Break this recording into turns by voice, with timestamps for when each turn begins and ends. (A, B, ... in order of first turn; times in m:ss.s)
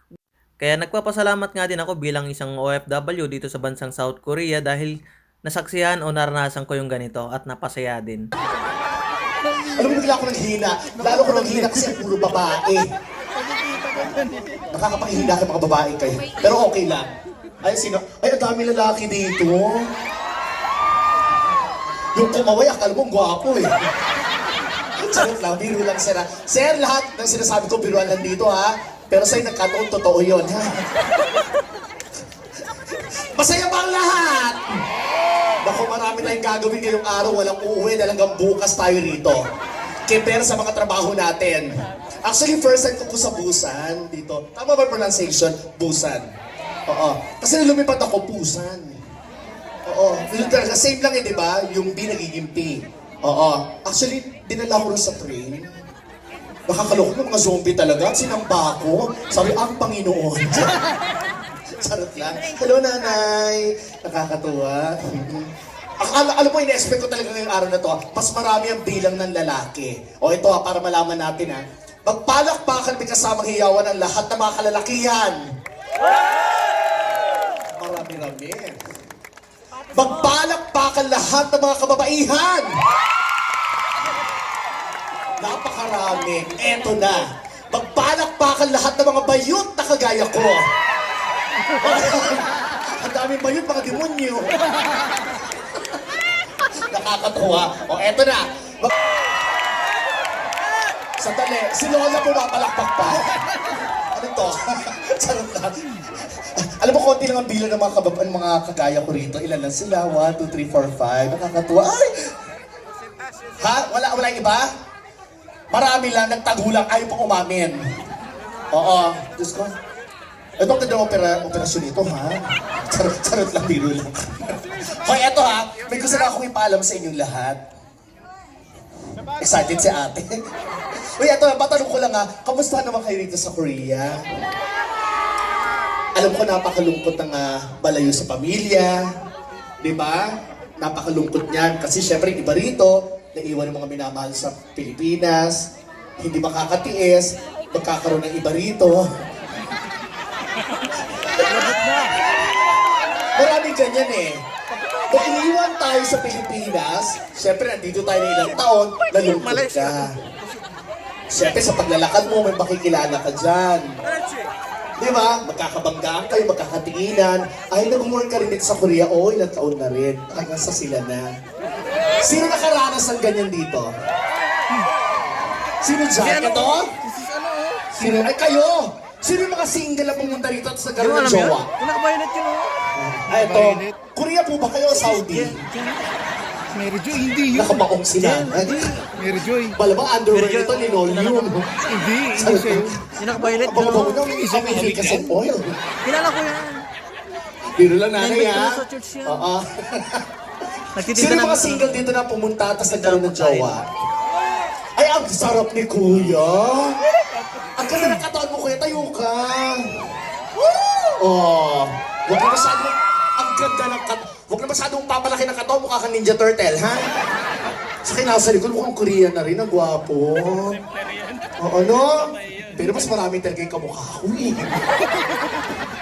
0:00.6-0:04.9 A
0:05.4-0:08.2 A
0:09.6-0:12.8 B
0:14.7-0:17.1 B
0:17.6-0:19.9 B
0:22.1-0:23.7 B
0:25.0-0:30.8 B
0:32.9-0:34.6 B
0:35.6-0:39.4 B
0:40.1-0:41.7 B
0:42.2-0:46.3 B
0:46.9-0:48.9 B
0:49.8-0:55.8 B
0:56.7-1:00.9 B
1:01.8-1:15.4 B
1:17.8-1:18.8 B
1:19.9-1:22.7 B
1:25.4-1:30.6 B
1:31.8-1:34.6 B
1:36.9-1:38.9 B
1:41.2-1:43.4 B
1:44.1-1:45.7 B
1:46.4-1:52.3 B
1:53.6-1:54.7 B
1:55.7-1:57.8 B
1:58.7-1:59.7 B
2:00.6-2:07.6 B
2:09.4-2:10.4 B
2:11.2-2:14.2 B
2:16.2-2:19.0 B
2:19.8-2:25.7 B
2:26.2-2:29.0 B
2:31.5-2:32.1 A
2:33.3-2:34.4 B
2:35.1-2:40.2 B
2:39.6-2:40.1 A
2:41.3-2:43.9 B
2:45.0-2:51.3 B
2:52.2-2:53.9 B
2:55.8-2:56.9 B
2:56.2-2:57.9 A
2:57.9-3:01.7 B
3:01.0-3:02.8 A
3:02.9-3:05.6 B
3:03.5-3:03.8 C
3:05.0-3:06.1 A
3:06.7-3:07.7 C
3:07.5-3:09.1 B
3:08.2-3:09.1 A
3:09.1-3:09.8 C
3:09.7-3:11.7 B
3:10.3-3:12.1 A
3:11.9-3:12.9 C
3:12.3-3:15.7 B
3:13.1-3:14.3 A
3:14.3-3:15.0 C
3:16.0-3:16.8 A
3:17.8-3:20.2 B
3:18.2-3:19.4 A
3:20.9-3:22.0 A
3:21.0-3:23.9 B
3:22.9-3:23.8 A
3:25.0-3:27.0 B
3:27.8-3:30.0 B
3:30.6-3:37.1 B
3:38.0-3:40.8 B
3:41.6-3:44.8 B